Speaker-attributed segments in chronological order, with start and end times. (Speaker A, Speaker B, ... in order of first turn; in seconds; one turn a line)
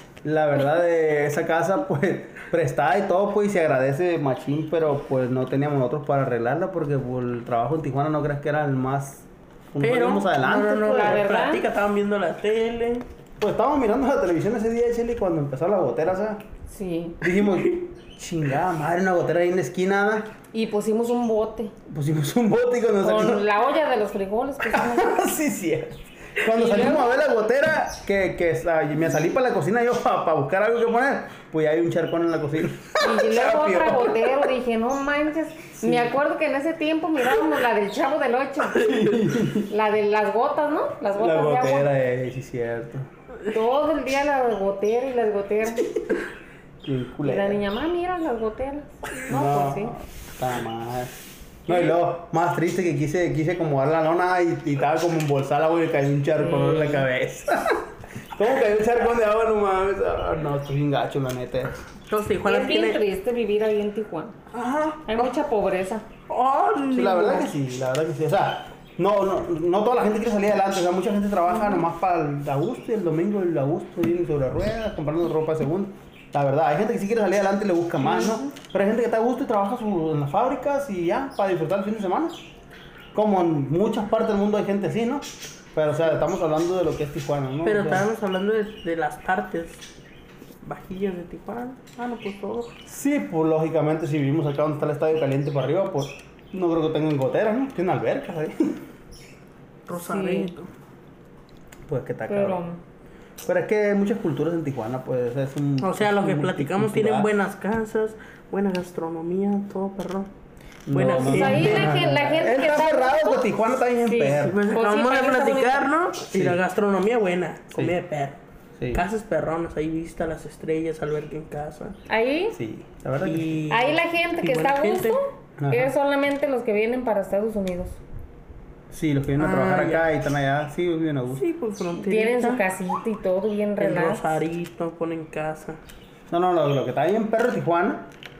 Speaker A: 0.2-11.2
Speaker B: 9.8-13.1
Speaker C: 10.9-11.6
Speaker A: 13.4-16.4
Speaker C: 16.7-17.2
Speaker A: 17.2-20.3
Speaker B: 17.4-17.8
Speaker C: 20.5-21.7
Speaker A: 21.9-23.4
Speaker C: 23.0-25.1
Speaker A: 24.6-34.3
Speaker C: 26.4-27.1
Speaker C: 33.0-38.8
Speaker A: 35.8-36.1
Speaker B: 38.7-39.3
Speaker A: 38.7-39.7
Speaker C: 39.7-41.9
Speaker A: 41.1-43.1
Speaker C: 43.5-45.9
Speaker A: 46.8-47.6
Speaker C: 47.2-49.9
Speaker A: 49.3-51.1
Speaker A: 51.6-61.7
Speaker B: 56.5-56.9
Speaker B: 62.1-63.0
Speaker C: 62.5-64.3
Speaker B: 64.5-65.3
Speaker C: 65.0-66.0
Speaker B: 66.3-67.5
Speaker A: 66.9-82.3
Speaker C: 78.0-78.5
Speaker A: 83.1-88.0
Speaker B: 87.6-89.8
Speaker B: 90.6-92.7
Speaker A: 92.8-98.8
Speaker B: 99.9-100.7
Speaker C: 99.9-100.5
Speaker A: 101.9-102.6
Speaker C: 102.3-102.8
Speaker A: 103.4-107.3
Speaker B: 105.8-110.3
Speaker A: 110.9-114.6
Speaker B: 110.9-112.0
Speaker C: 111.0-113.4
Speaker C: 114.0-115.9
Speaker B: 114.2-118.4
Speaker A: 116.3-116.6
Speaker A: 118.8-119.0
Speaker B: 118.9-122.0
Speaker C: 122.1-122.6
Speaker A: 122.5-123.6
Speaker B: 123.2-125.2
Speaker C: 123.7-128.0
Speaker A: 125.6-125.9
Speaker A: 128.9-131.4
Speaker B: 129.4-130.0
Speaker B: 131.3-132.6
Speaker C: 132.0-134.2
Speaker B: 133.8-135.8
Speaker A: 136.3-138.1